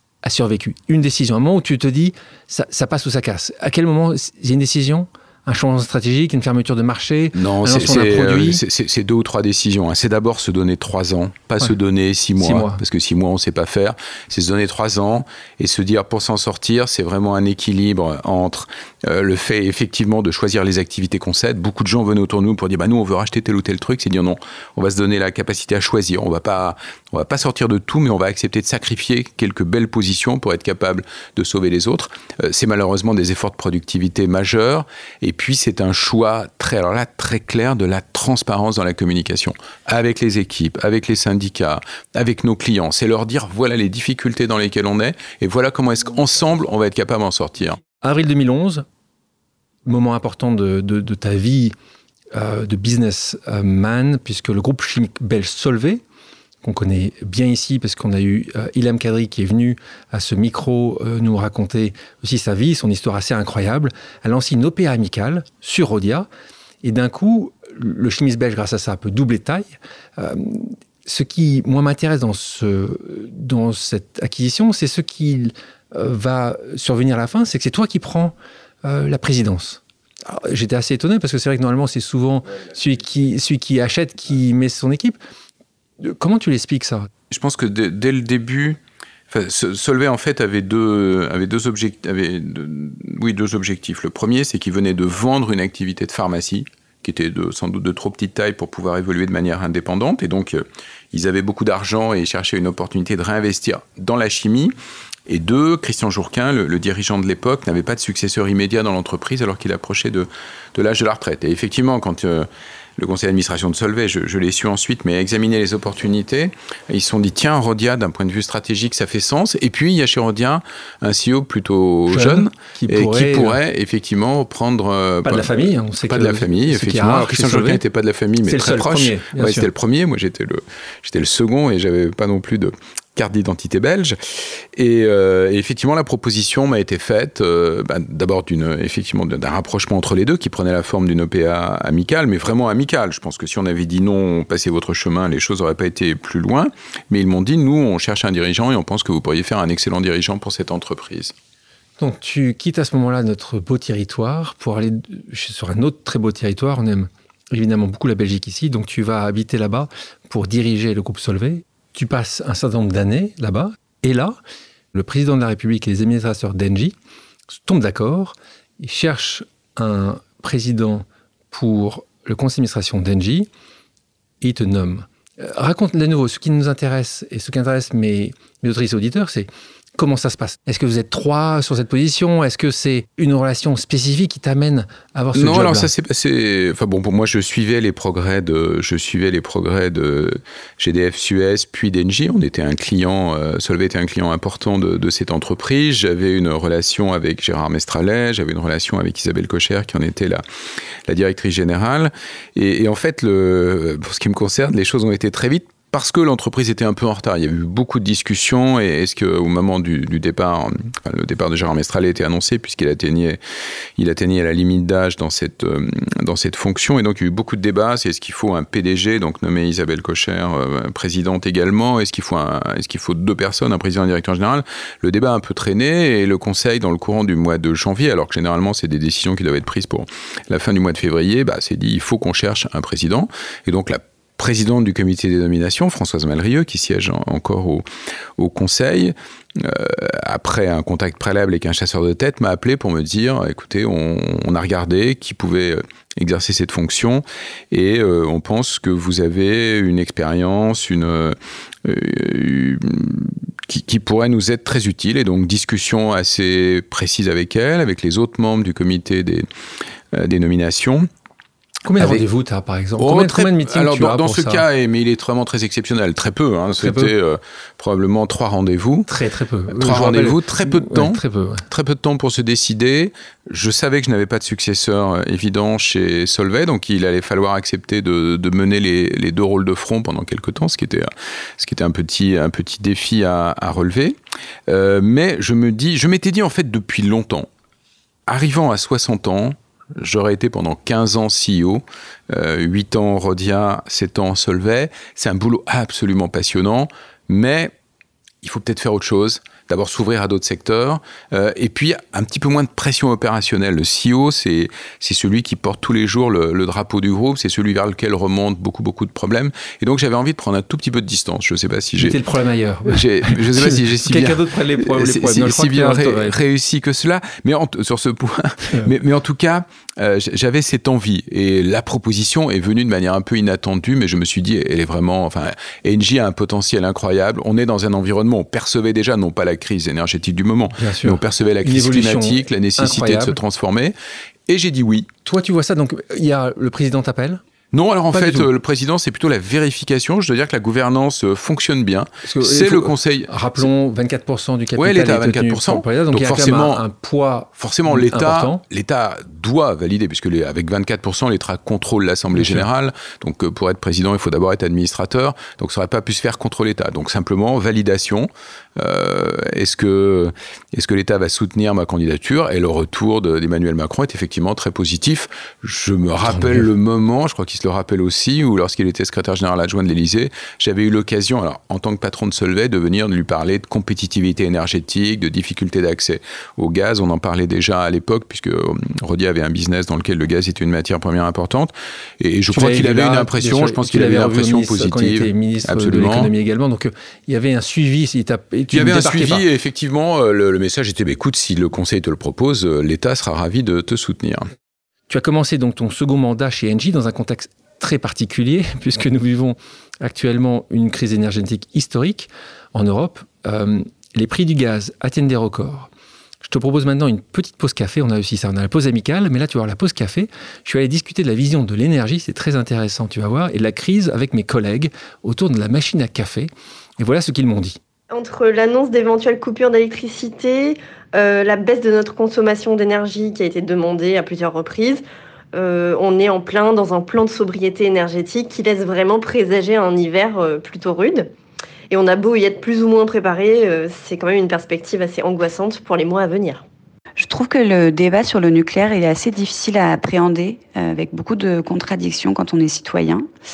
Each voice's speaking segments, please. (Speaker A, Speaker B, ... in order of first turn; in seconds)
Speaker A: 0.2-8.6, 12.4-12.8, 48.0-48.9, 49.9-51.8, 52.3-56.0, 56.6-66.3, 66.8-85.2, 86.0-87.1, 122.1-123.6, 125.2-127.8, 128.4-129.7, 152.0-164.4, 164.9-166.9, 167.5-173.5, 174.4-185.9, 261.9-264.6, 266.8-267.1, 269.1-271.7, 312.0-316.4, 330.8-333.4, 335.2-337.4, 338.1-338.5, 342.2-348.6, 352.3-352.7, 366.2-366.7, 382.5-389.4, 395.1-405.9, 406.4-417.8
Speaker B: 7.3-47.8, 87.3-88.8, 89.3-104.7, 105.3-125.5, 126.0-151.3, 185.3-200.4, 201.1-213.4, 214.0-237.8, 238.4-259.5, 260.1-261.1, 262.0-262.2, 263.0-269.1, 269.7-287.5, 288.3-297.7, 298.4-312.2, 312.9-333.9, 334.5-335.1, 337.7-343.7, 344.8-346.8, 347.6-386.3, 388.7-394.5
Speaker C: 418.1-425.0, 425.5-431.3, 431.9-436.6
Speaker D: 437.2-443.3